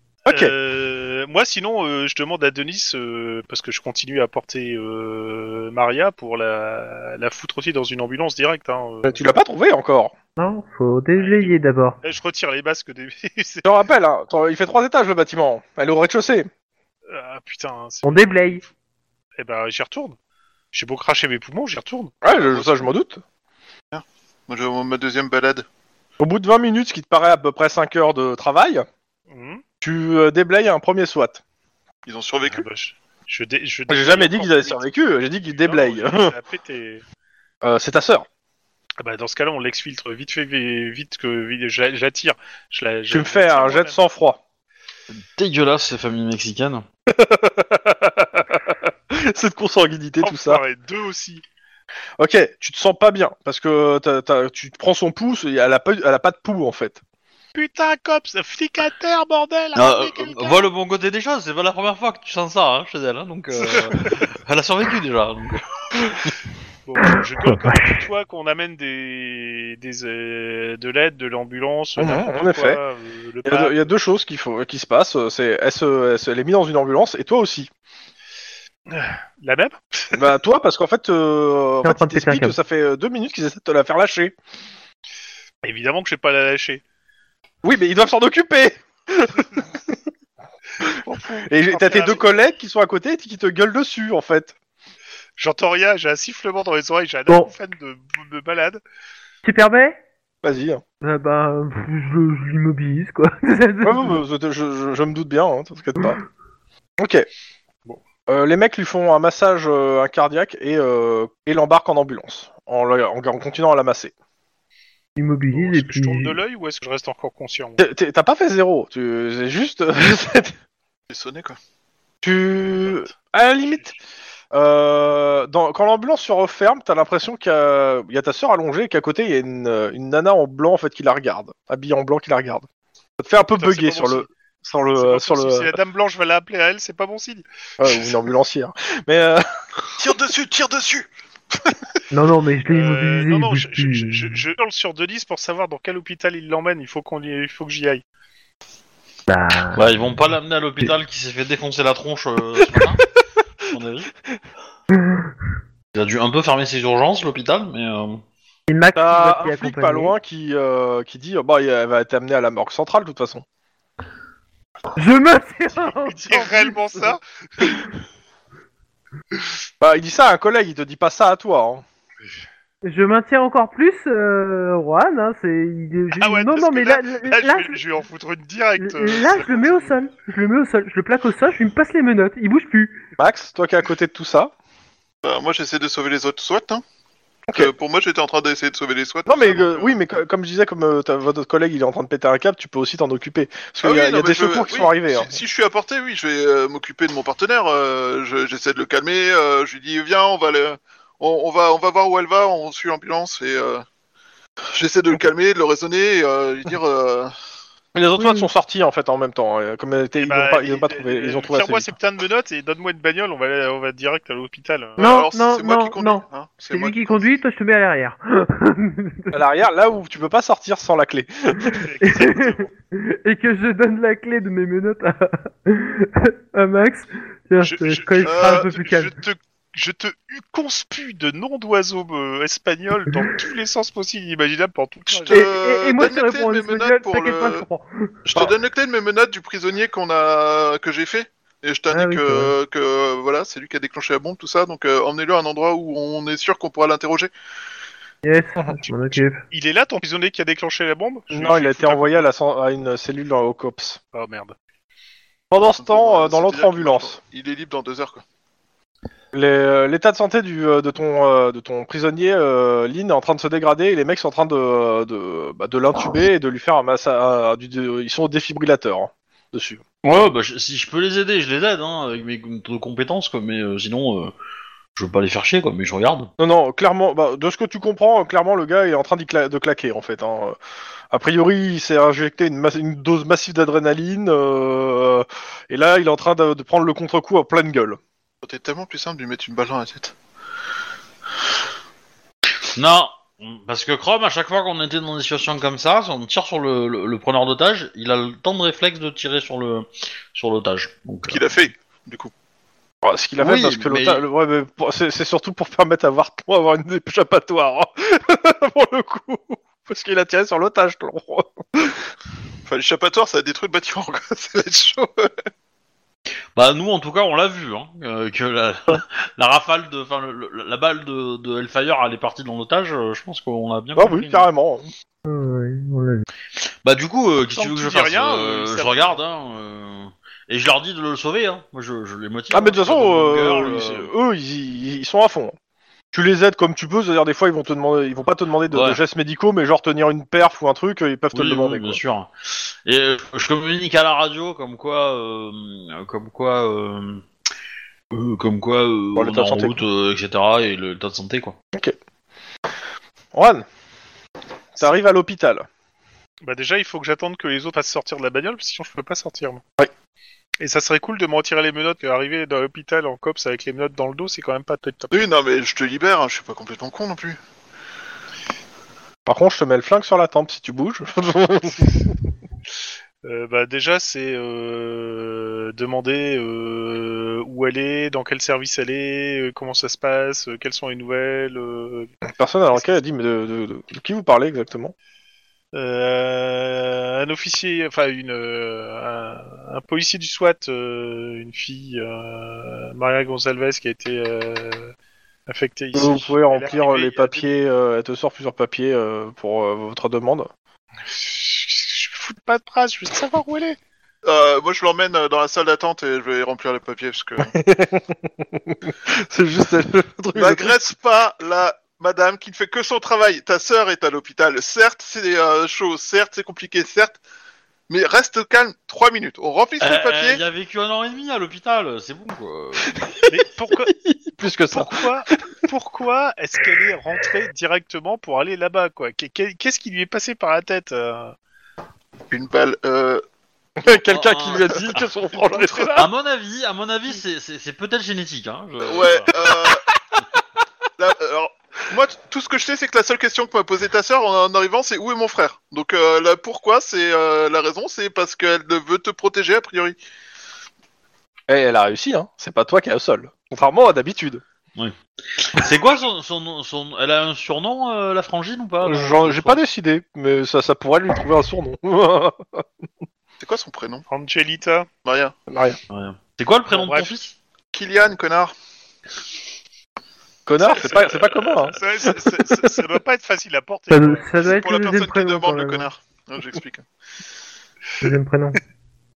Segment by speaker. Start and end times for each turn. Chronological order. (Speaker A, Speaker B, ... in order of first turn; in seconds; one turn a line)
Speaker A: 0.3-0.5
Speaker B: 0.3-9.2
Speaker A: 9.1-10.1
Speaker C: 10.4-12.0
Speaker B: 11.1-13.7
Speaker A: 13.6-16.5
Speaker B: 17.1-18.7
Speaker C: 18.0-18.6
Speaker B: 19.4-20.1
Speaker B: 20.7-22.3
Speaker A: 22.2-23.2
Speaker D: 22.3-22.7
Speaker D: 23.9-25.6
Speaker A: 26.2-28.9
Speaker B: 29.3-29.6
Speaker A: 29.8-31.4
Speaker D: 32.0-32.6
Speaker B: 32.5-34.9
Speaker A: 33.9-36.3
Speaker B: 35.5-37.0
Speaker A: 37.6-38.2
Speaker B: 39.0-44.0
Speaker A: 43.1-44.4
Speaker E: 45.1-46.8
Speaker A: 47.1-50.6
Speaker B: 50.2-51.4
Speaker A: 52.2-57.0
Speaker B: 57.5-60.7
Speaker E: 59.7-65.6
Speaker B: 63.6-64.1
Speaker B: 66.8-73.9
Speaker C: 67.7-67.9
Speaker A: 72.0-72.8
Speaker A: 73.4-77.7
Speaker B: 78.9-80.2
Speaker A: 80.1-84.3
Speaker C: 81.8-82.6
Speaker B: 85.6-86.8
Speaker A: 87.6-90.0
Speaker B: 90.8-92.3
Speaker A: 91.5-94.5
Speaker B: 95.4-98.8
Speaker C: 99.4-100.0
Speaker A: 100.4-100.8
Speaker C: 101.0-104.2
Speaker A: 103.8-106.2
Speaker A: 107.0-107.3
Speaker A: 108.3-114.1
Speaker C: 115.2-116.4
Speaker B: 115.5-117.8
Speaker A: 117.8-120.5
Speaker D: 121.1-121.6
Speaker A: 122.2-124.0
Speaker A: 124.5-132.6
Speaker A: 133.2-135.7
Speaker B: 133.4-134.3
Speaker B: 134.9-137.4
Speaker A: 137.8-141.1
Speaker C: 142.1-144.4
Speaker B: 142.7-148.0
Speaker C: 149.3-149.9
Speaker E: 149.7-153.0
Speaker E: 153.7-154.1
Speaker E: 155.9-158.2
Speaker C: 158.7-160.1
Speaker A: 158.9-163.4
Speaker C: 164.9-167.8
Speaker B: 165.7-167.8
Speaker A: 169.8-171.8
Speaker C: 172.8-177.8
Speaker B: 176.1-179.9
Speaker C: 178.8-183.0
Speaker A: 183.2-184.5
Speaker D: 185.2-186.8
Speaker D: 187.5-189.9
Speaker A: 189.3-195.3
Speaker D: 193.8-203.8
Speaker D: 204.7-207.3
Speaker A: 207.9-211.9
Speaker C: 208.2-208.5
Speaker B: 210.2-215.0
Speaker D: 215.0-217.4
Speaker C: 215.0-219.4
Speaker A: 219.3-221.9
Speaker B: 221.8-222.7
Speaker C: 222.0-229.2
Speaker B: 227.6-235.5
Speaker D: 228.2-228.7
Speaker D: 235.2-237.6
Speaker C: 235.3-238.2
Speaker D: 238.2-247.3
Speaker C: 241.9-242.5
Speaker C: 248.2-249.4
Speaker B: 249.1-252.2
Speaker A: 251.3-254.0
Speaker B: 254.1-254.6
Speaker A: 255.5-257.2
Speaker D: 255.8-258.2
Speaker A: 259.3-269.8
Speaker E: 270.0-274.3
Speaker E: 274.9-276.3
Speaker A: 276.4-280.6
Speaker A: 281.1-288.0
Speaker D: 288.4-290.1
Speaker E: 292.7-301.5
Speaker D: 301.3-302.3
Speaker A: 303.0-312.1
Speaker E: 303.4-304.2
Speaker D: 312.7-315.4
Speaker E: 316.5-324.4
Speaker A: 323.9-324.9
Speaker C: 325.2-326.2
Speaker E: 326.8-334.1
Speaker B: 327.6-329.2
Speaker A: 332.5-335.6
Speaker A: 336.1-342.0
Speaker E: 338.7-339.0
Speaker E: 341.3-347.2
Speaker E: 348.1-351.6
Speaker A: 349.1-349.8
Speaker A: 353.3-353.6
Speaker A: 354.7-355.7
Speaker B: 356.4-359.6
Speaker B: 360.6-365.2
Speaker D: 365.1-367.4
Speaker A: 369.2-372.0
Speaker B: 373.2-382.1
Speaker A: 382.3-384.9
Speaker B: 382.7-383.0
Speaker B: 385.7-394.9
Speaker B: 395.5-397.5
Speaker A: 395.9-400.5
Speaker B: 401.0-403.8
Speaker D: 404.2-407.5
Speaker A: 407.4-410.8
Speaker D: 410.3-417.2
Speaker D: 417.9-420.4
Speaker E: 419.8-423.0
Speaker A: 422.9-423.3
Speaker B: 423.3-423.9
Speaker A: 423.9-425.1
Speaker B: 424.7-431.3
Speaker D: 432.3-433.2
Speaker A: 433.8-436.1
Speaker E: 433.9-435.1
Speaker E: 435.9-439.3
Speaker D: 438.8-439.8
Speaker D: 441.0-450.0
Speaker A: 451.5-454.4
Speaker E: 454.7-459.6
Speaker A: 458.8-462.6
Speaker D: 463.4-464.0
Speaker B: 464.1-464.9
Speaker D: 465.0-465.3
Speaker A: 465.5-465.8
Speaker E: 465.9-467.3
Speaker B: 466.7-467.1
Speaker D: 467.7-468.5
Speaker A: 470.4-471.8
Speaker B: 470.7-471.1
Speaker D: 470.7-471.2
Speaker B: 471.7-474.4
Speaker C: 473.9-475.9
Speaker D: 474.4-476.9
Speaker C: 478.0-478.6